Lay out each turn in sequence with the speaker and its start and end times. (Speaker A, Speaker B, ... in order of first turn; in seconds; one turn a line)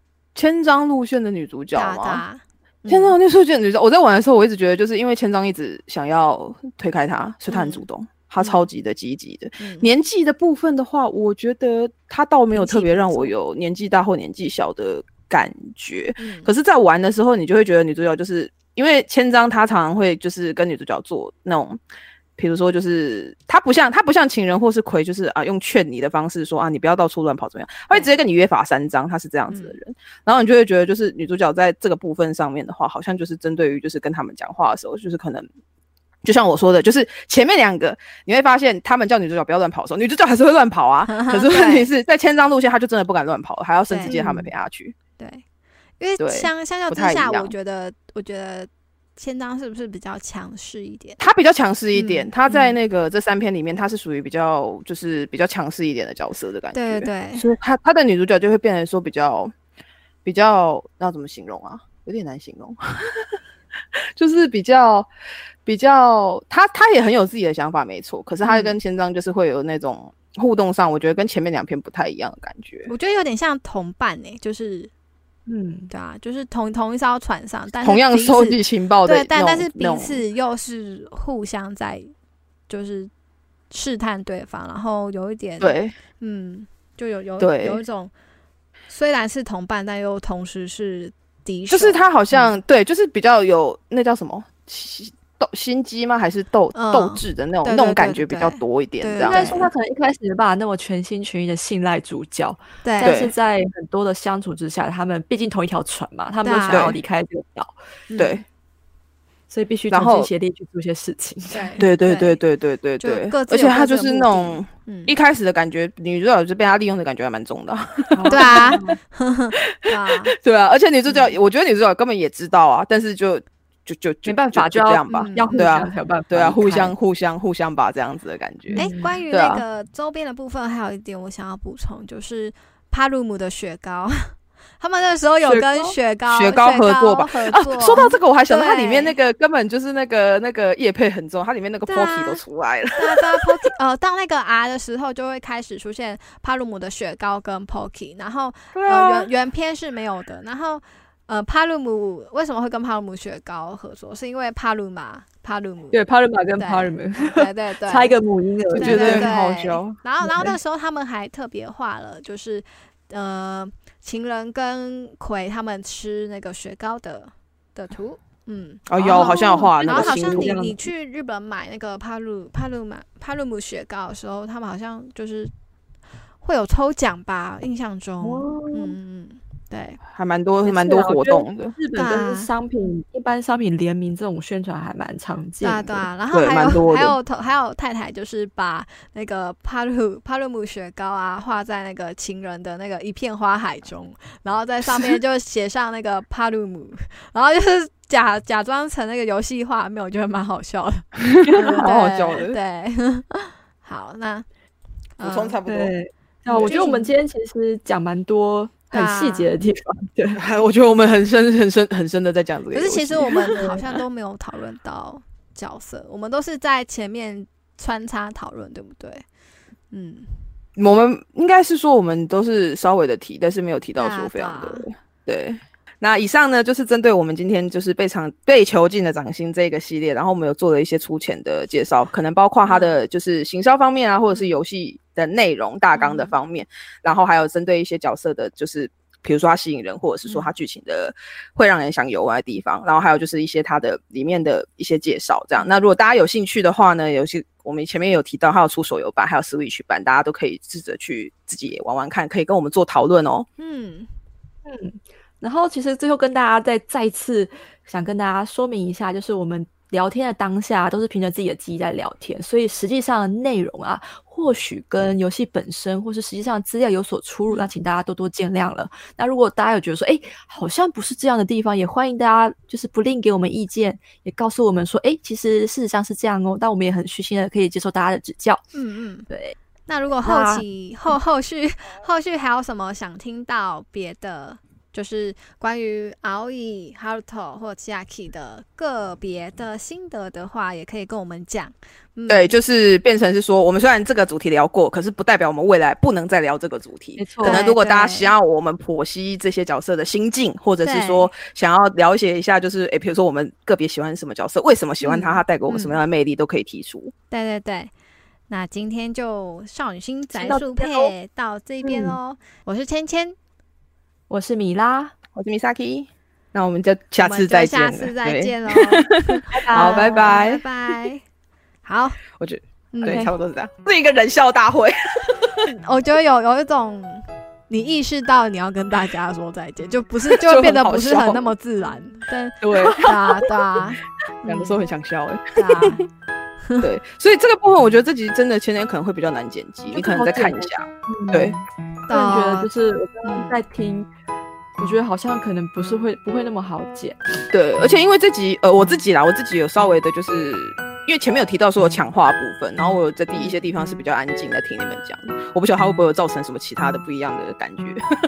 Speaker A: 0.3-2.2
Speaker B: 1.7-3.2
Speaker A: 2.9-21.8
Speaker B: 7.5-7.9
Speaker B: 8.4-8.7
Speaker B: 9.6-9.9
Speaker B: 12.5-13.3
Speaker B: 16.2-16.5
Speaker A: 22.4-35.5
Speaker B: 29.5-29.8
Speaker A: 36.2-45.0
Speaker B: 41.1-41.9
Speaker B: 43.9-44.2
Speaker C: 44.1-44.5
Speaker B: 45.2-45.4
Speaker B: 46.0-51.2
Speaker A: 46.2-47.5
Speaker A: 51.2-59.5
Speaker B: 51.9-52.8
Speaker B: 56.7-57.5
Speaker A: 60.2-63.2
Speaker A: 64.2-65.1
Speaker A: 65.7-72.9
Speaker B: 68.5-68.7
Speaker B: 72.9-74.9
Speaker C: 75.5-75.9
Speaker B: 75.9-82.1
Speaker A: 77.8-80.2
Speaker B: 82.7-83.1
Speaker B: 83.7-88.1
Speaker A: 85.6-85.9
Speaker A: 87.4-87.8
Speaker B: 88.9-92.6
Speaker A: 91.7-99.6
Speaker B: 96.7-99.7
Speaker C: 99.2-107.7
Speaker B: 102.8-103.2
Speaker A: 103.0-103.3
Speaker B: 106.4-107.0
Speaker A: 106.7-107.0
Speaker B: 108.1-108.3
Speaker A: 108.2-108.4
Speaker C: 109.5-111.8
Speaker A: 109.9-110.3
Speaker B: 111.5-112.4
Speaker A: 111.8-118.9
Speaker B: 113.0-115.2
Speaker C: 118.1-119.0
Speaker B: 118.3-120.3
Speaker A: 119.7-129.6
Speaker B: 121.1-121.3
Speaker C: 124.3-126.9
Speaker B: 125.1-125.7
Speaker C: 128.7-129.2
Speaker B: 128.8-139.2
Speaker C: 135.4-136.0
Speaker A: 136.3-143.5
Speaker B: 141.9-142.4
Speaker B: 143.0-156.0
Speaker A: 148.7-149.3
Speaker C: 155.9-159.3
Speaker B: 156.6-158.2
Speaker B: 158.7-175.5
Speaker A: 158.8-160.0
Speaker C: 160.2-160.5
Speaker A: 168.9-170.5
Speaker C: 169.0-170.9
Speaker B: 176.4-180.0
Speaker C: 178.2-178.9
Speaker A: 180.1-181.8
Speaker C: 180.7-186.1
Speaker B: 182.0-182.5
Speaker B: 185.6-201.1
Speaker A: 186.3-187.2
Speaker A: 201.2-202.6
Speaker C: 201.5-201.9
Speaker B: 201.7-204.5
Speaker B: 205.2-205.6
Speaker A: 205.2-205.9
Speaker C: 205.7-210.4
Speaker B: 206.5-207.1
Speaker A: 206.5-206.8
Speaker B: 208.9-209.5
Speaker A: 210.4-213.7
Speaker B: 212.7-219.2
Speaker B: 219.9-220.4
Speaker A: 220.8-253.5
Speaker B: 224.0-224.9
Speaker B: 232.7-233.0
Speaker B: 235.9-236.4
Speaker B: 240.3-240.5
Speaker B: 253.6-254.1
Speaker C: 254.7-278.6
Speaker B: 278.7-279.3
Speaker C: 279.3-279.6
Speaker B: 279.9-292.5
Speaker C: 280.2-280.6
Speaker A: 292.3-307.1
Speaker C: 297.2-297.7
Speaker B: 297.4-298.3
Speaker B: 300.8-301.3
Speaker B: 305.0-306.0
Speaker B: 307.3-307.9
Speaker B: 308.5-313.4
Speaker C: 310.4-311.1
Speaker C: 311.8-312.2
Speaker C: 314.3-315.1
Speaker A: 315.4-320.6
Speaker B: 317.2-321.2
Speaker C: 319.5-320.4
Speaker B: 321.8-322.2
Speaker A: 322.4-325.7
Speaker B: 322.9-323.3
Speaker C: 323.1-323.3
Speaker B: 325.7-334.8
Speaker A: 330.3-331.5
Speaker A: 332.6-333.5
Speaker A: 334.4-336.0
Speaker B: 335.6-336.0
Speaker A: 336.8-341.6
Speaker C: 339.9-344.1
Speaker B: 342.1-342.7
Speaker B: 343.3-343.6
Speaker C: 344.8-347.2
Speaker A: 347.5-358.0